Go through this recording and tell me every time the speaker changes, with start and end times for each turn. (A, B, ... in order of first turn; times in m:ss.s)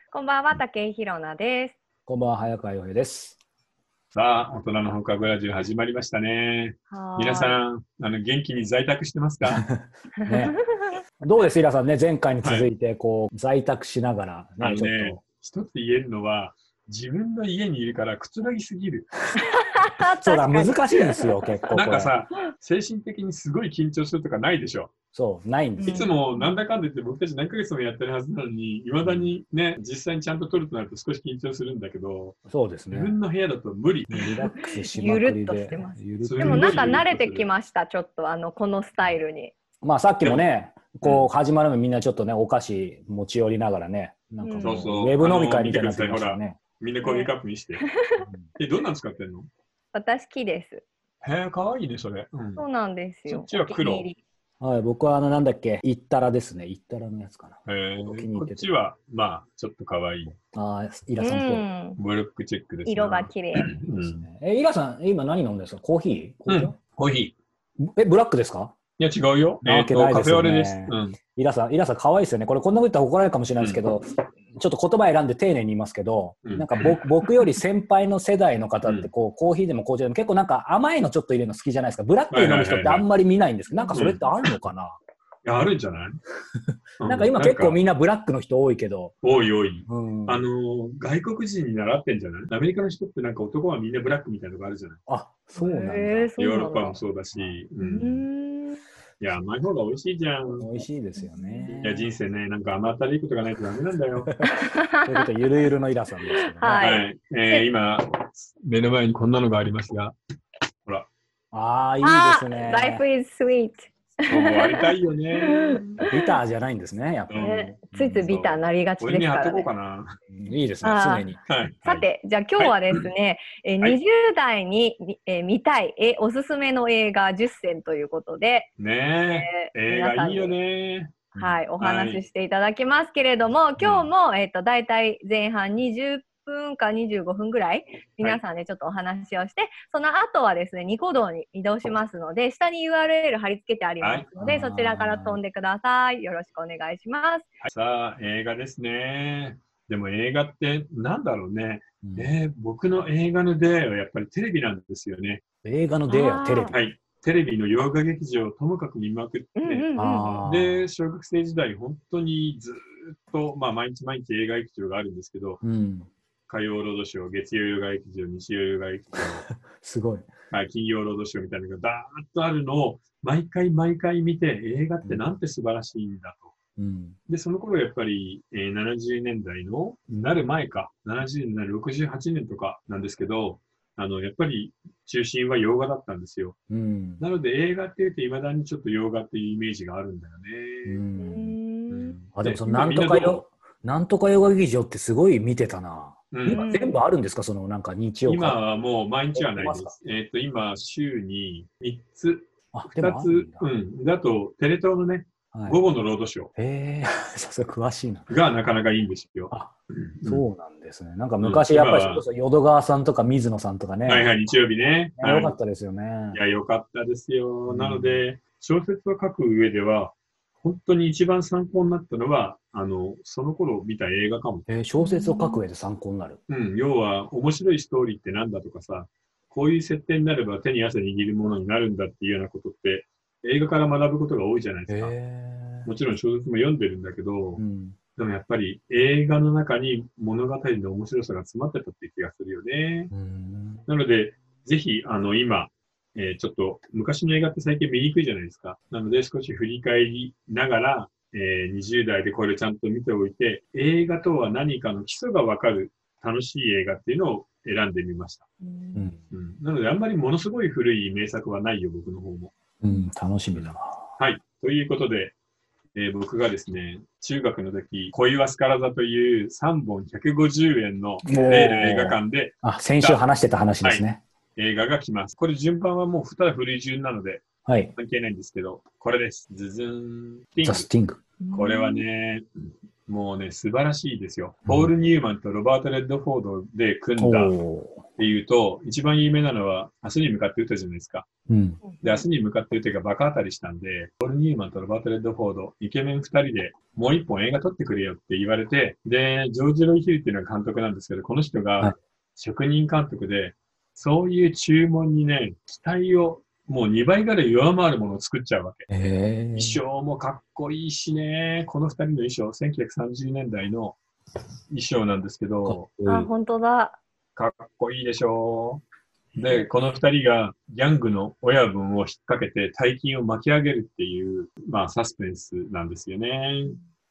0:00.1-0:01.8 A
0:02.1-0:03.4 B
0:04.1-0:09.6 C
0:06.9-0:07.6 A
0:09.4-0:10.6 B
0:10.2-0:11.0 A
0:11.2-0:15.2 B
0:12.4-0:12.7 C
0:14.6-0:19.2 C
0:19.4-0:21.3 A
0:20.0-0:22.1 B
0:21.7-0:24.9 C
0:25.1-0:26.0 B
0:25.8-0:26.6 A
0:25.8-0:32.4 C
0:29.0-0:29.4 B
0:32.5-0:33.2 B
0:32.9-0:34.3 C
0:34.1-0:37.0 B
0:34.5-0:39.5 A
0:36.2-0:37.5 C
0:39.8-0:46.6 B
0:41.0-0:41.3 C
0:44.4-0:44.9 A
0:44.6-0:47.9 C
0:47.0-0:47.3 A
0:47.8-0:48.3 A
0:48.6-0:49.5 C
0:49.9-0:50.8 A
0:51.2-0:52.6 C
0:52.6-0:54.2 A
0:53.3-0:54.1 C
0:54.6-0:58.7 B
0:57.7-1:00.4 C
1:00.5-1:01.6 B
1:01.2-1:02.0 A
1:02.0-1:04.2 C
1:02.8-1:03.7 A
1:03.9-1:06.7 B
1:06.5-1:07.3 C
1:07.8-1:08.8 B
1:09.0-1:11.2 C
1:09.6-1:25.0 B
1:16.4-1:17.0 C
1:22.3-1:23.0 C
1:23.9-1:24.2 C
1:25.4-1:26.2 C
1:27.0-1:27.8 C
1:27.0-1:29.1 B
1:29.2-1:35.0 C
1:29.9-1:30.4 B
1:35.1-1:36.3 B
1:35.6-1:37.0 A
1:36.4-1:38.2 C
1:37.3-1:37.6 B
1:37.8-1:38.8 A
1:39.2-1:40.7 C
1:40.6-1:42.1 B
1:41.2-1:41.8 A
1:41.8-1:44.4 C
1:44.2-1:46.8 B
1:44.5-1:45.3 A
1:46.5-1:47.6 A
1:46.8-1:50.1 C
1:51.5-1:53.0 B
1:52.0-1:56.3 A
1:54.3-1:56.0 C
1:56.0-1:58.4 B
1:57.3-1:57.6 C
1:57.4-1:59.7 A
1:58.2-2:00.1 C
2:00.3-2:01.4 B
2:00.8-2:01.3 A
2:01.5-2:02.0 C
2:01.8-2:08.7 A
2:02.6-2:03.0 C
2:08.8-2:12.2 C
2:09.3-2:10.5 A
2:11.4-2:27.5 A
2:13.8-2:14.0 C
2:24.0-2:24.3 C
2:24.4-2:25.4 B
2:27.6-2:35.4 C
2:32.0-2:32.3 B
2:35.6-2:36.8 B
2:36.1-2:36.7 A
2:36.7-2:45.6 C
2:39.6-2:40.4 A
2:40.0-2:40.9 B
2:45.6-2:46.1 B
2:46.5-2:49.5 C
2:49.6-2:50.3 B
2:50.5-2:56.5 C
2:56.8-2:57.2 B
2:57.3-3:06.6 C
3:06.7-3:07.2 B
3:07.2-3:11.0 C
3:10.8-3:11.6 B
3:11.2-3:12.1 A
3:11.9-3:13.4 C
3:12.3-3:18.6 B
3:16.3-3:16.7 C
3:16.5-3:17.0 A
3:18.3-3:26.5 C
3:19.3-3:19.9 B
3:22.7-3:23.7 B
3:26.6-3:28.3 B
3:28.3-3:30.4 C
3:30.2-3:34.3 B
3:31.4-3:32.2 C
3:34.0-3:35.6 C
3:35.2-3:36.4 B
3:36.3-3:44.7 C
3:37.7-3:38.2 B
3:44.7-3:46.4 B
3:45.0-3:45.6 A
3:46.5-3:55.1 C
3:54.9-3:55.9 B
3:55.8-3:57.6 C
3:57.6-3:58.0 B
3:58.2-4:03.1 C
4:03.1-4:03.8 B
4:03.9-4:18.4 C
4:18.6-4:19.1 A
4:18.9-4:19.2 B
4:19.3-4:22.5 C
4:22.8-4:24.0 B
4:23.5-4:25.3 C
4:25.9-4:33.2 C
4:31.2-4:34.2 B
4:34.6-4:40.9 C
4:37.6-4:37.9 B
4:40.6-4:41.2 B
4:41.4-4:42.0 A
4:41.5-4:42.4 C
4:43.1-4:47.5 C
4:47.2-4:48.0 B
4:48.2-4:51.3 C
4:51.5-4:51.8 B
4:51.8-4:52.2 A
4:52.0-5:08.9 C
5:08.9-5:09.8 B
5:09.5-5:14.0 C
5:14.7-5:15.9 C
5:15.7-5:16.3 B
5:16.0-5:17.0 A
5:17.4-5:18.8 C
5:19.3-5:26.8 C